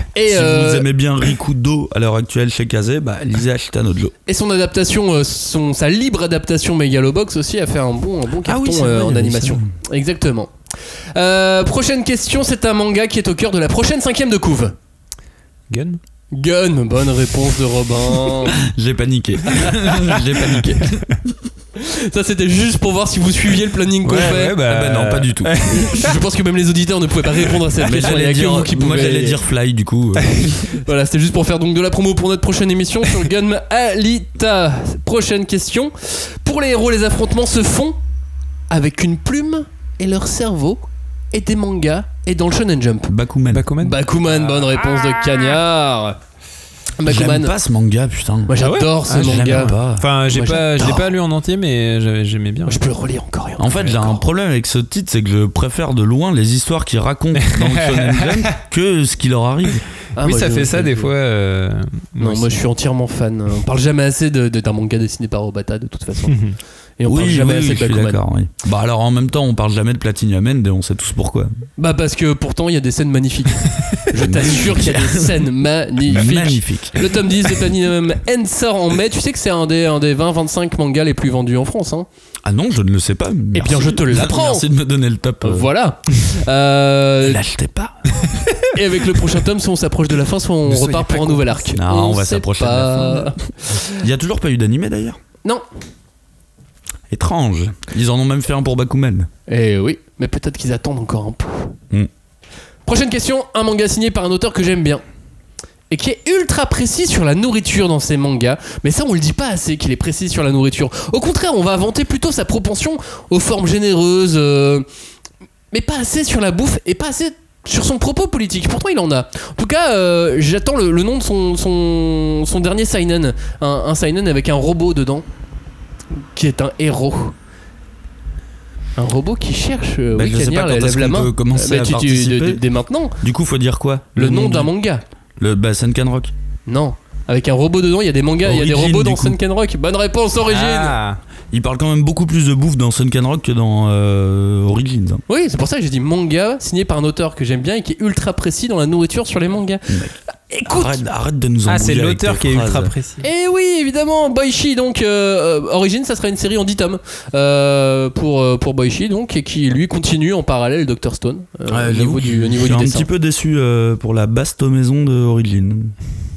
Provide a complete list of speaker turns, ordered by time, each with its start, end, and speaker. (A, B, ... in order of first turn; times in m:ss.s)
0:00.2-0:00.9 A
0:00.3-0:04.1 B
0:04.3-0:10.5 A
0:08.4-0:09.7 B
0:11.2-0:14.8 A
0:15.7-0:16.0 C
0:16.3-0:18.6 A
0:18.6-0:21.2 B
0:21.8-0:24.5 A
0:24.1-0:26.2 C
0:24.1-0:25.6 B
0:25.7-0:29.4 A
0:27.8-0:30.6 B
0:30.7-0:38.0 A
0:38.7-0:43.1 A
0:43.1-0:43.7 B
0:43.5-0:44.8 C
0:43.8-0:46.2 A
0:47.0-0:47.5 A
0:47.0-0:48.5 B
0:48.5-0:49.7 A
0:48.6-0:52.8 C
0:49.1-0:50.1 B
0:50.3-0:51.1 A
0:52.7-0:54.3 A
0:53.6-0:59.8 B
0:57.4-0:58.6 C
1:00.2-1:01.1 A
1:00.2-1:02.6 C
1:02.2-1:06.4 A
1:06.3-1:06.6 C
1:07.0-1:08.2 A
1:07.1-1:11.5 B
1:11.8-1:22.1 A
1:14.1-1:15.4 B
1:16.0-1:17.0 B
1:22.4-1:25.7 B
1:23.5-1:24.7 A
1:25.4-1:27.4 A
1:27.2-1:28.3 B
1:28.7-1:33.9 A
1:30.6-1:31.7 C
1:31.8-1:35.2 B
1:37.1-1:39.3 B
1:39.5-1:41.7 A
1:42.9-1:45.0 A
1:45.9-1:54.9 A
1:55.7-2:05.3 A
2:06.2-2:07.3 A
2:09.0-2:13.2 A
2:10.1-2:12.6 B
2:13.2-2:14.7 B
2:14.2-2:15.0 A
2:15.4-2:16.3 B
2:16.7-2:21.0 A
2:18.4-2:19.4 B
2:20.5-2:21.2 C
2:21.5-2:25.2 B
2:25.3-2:30.0 A
2:30.5-2:31.0 A
2:30.6-2:32.9 B
2:31.7-2:33.2 C
2:33.2-2:43.1 A
2:41.7-2:45.9 B